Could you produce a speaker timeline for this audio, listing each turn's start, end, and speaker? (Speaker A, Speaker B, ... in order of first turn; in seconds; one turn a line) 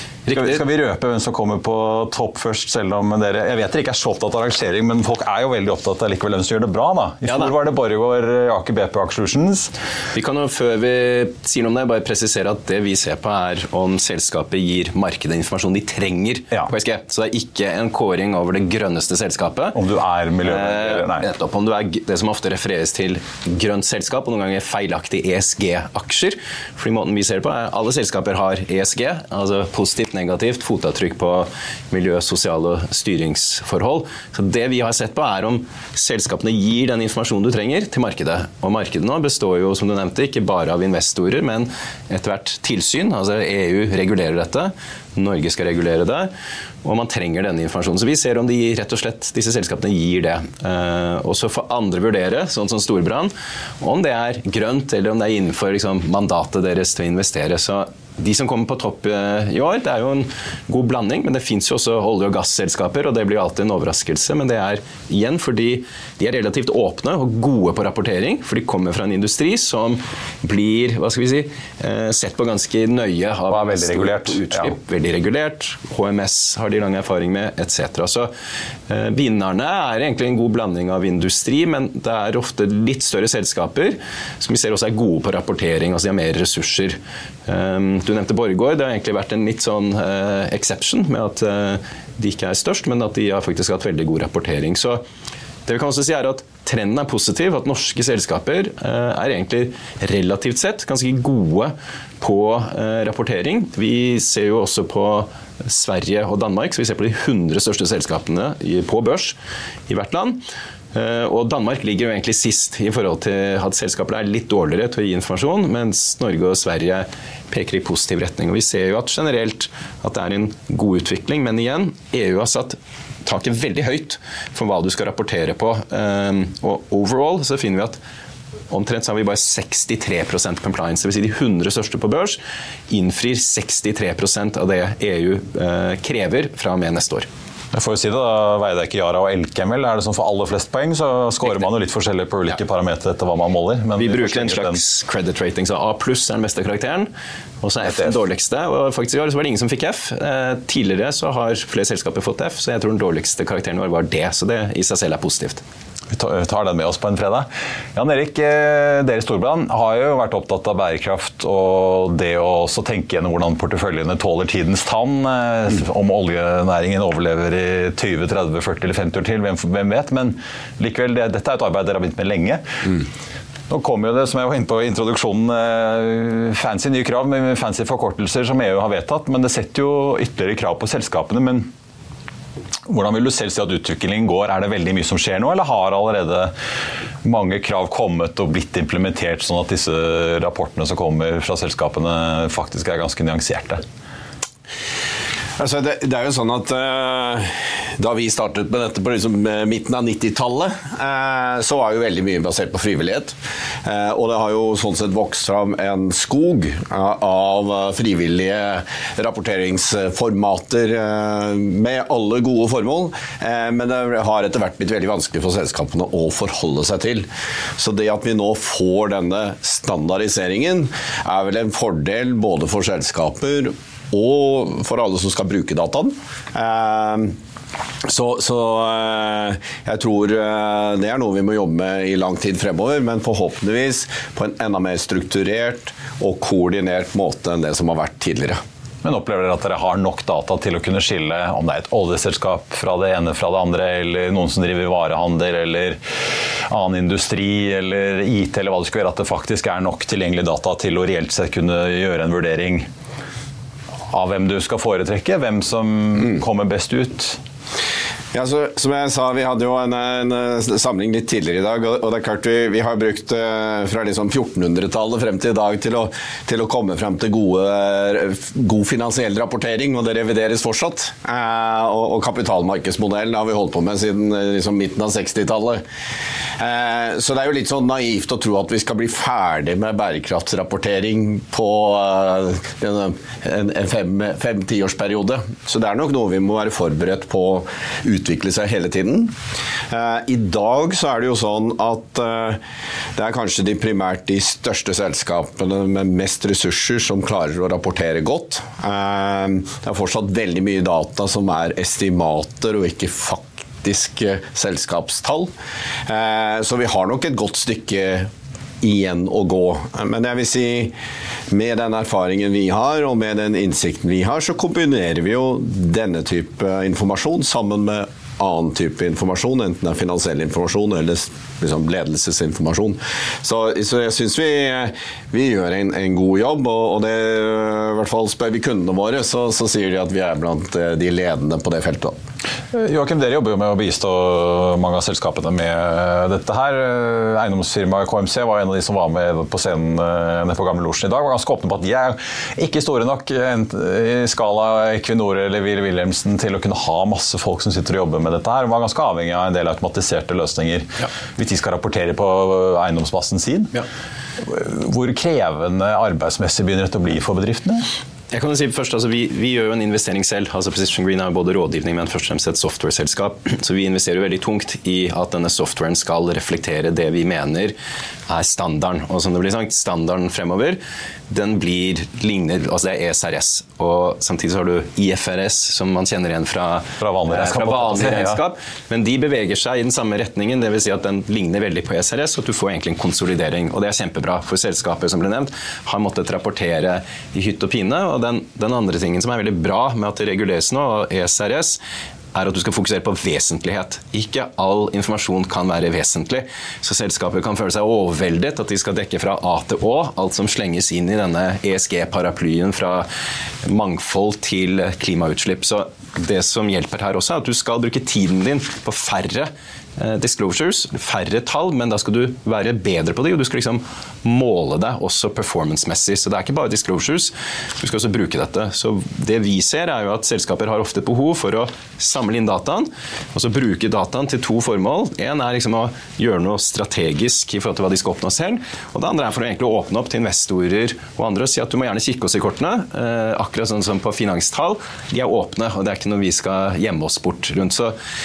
Speaker A: 0.3-0.6
Speaker B: 0.3-9.7
Speaker A: 7.3-7.5
Speaker A: 10.1-19.8
Speaker B: 19.7-21.2
Speaker A: 20.4-46.3
Speaker A: 46.8-78.3
Speaker B: 73.5-74.7
Speaker A: 78.9-95.0
Speaker A: 95.7-109.3
Speaker A: 109.9-110.4
Speaker A: 110.9-128.0
Speaker A: 128.7-132.4
Speaker A: 132.9-137.3
Speaker B: 137.7-144.8
Speaker A: 144.0-147.1
Speaker A: 147.6-155.6
Speaker B: 147.8-148.2
Speaker B: 156.1-172.6
Speaker B: 173.7-181.7
Speaker B: 182.9-186.5
Speaker B: 187.2-193.8
Speaker C: 195.6-227.3
Speaker C: 228.0-238.6
Speaker B: 239.0-246.0
Speaker B: 246.7-252.9
Speaker B: 254.1-257.4
Speaker C: 258.3-275.8
Speaker C: 276.6-289.3
Speaker C: 289.9-292.6
Speaker C: 293.1-305.5
Speaker C: 306.1-310.9
Speaker C: 311.5-332.1
Speaker B: 332.7-353.7
Speaker B: 354.4-357.9
Speaker A: 358.3-367.7
Speaker A: 368.3-391.8
Speaker B: 377.0-378.4
Speaker A: 392.3-403.1
Speaker A: 403.6-437.9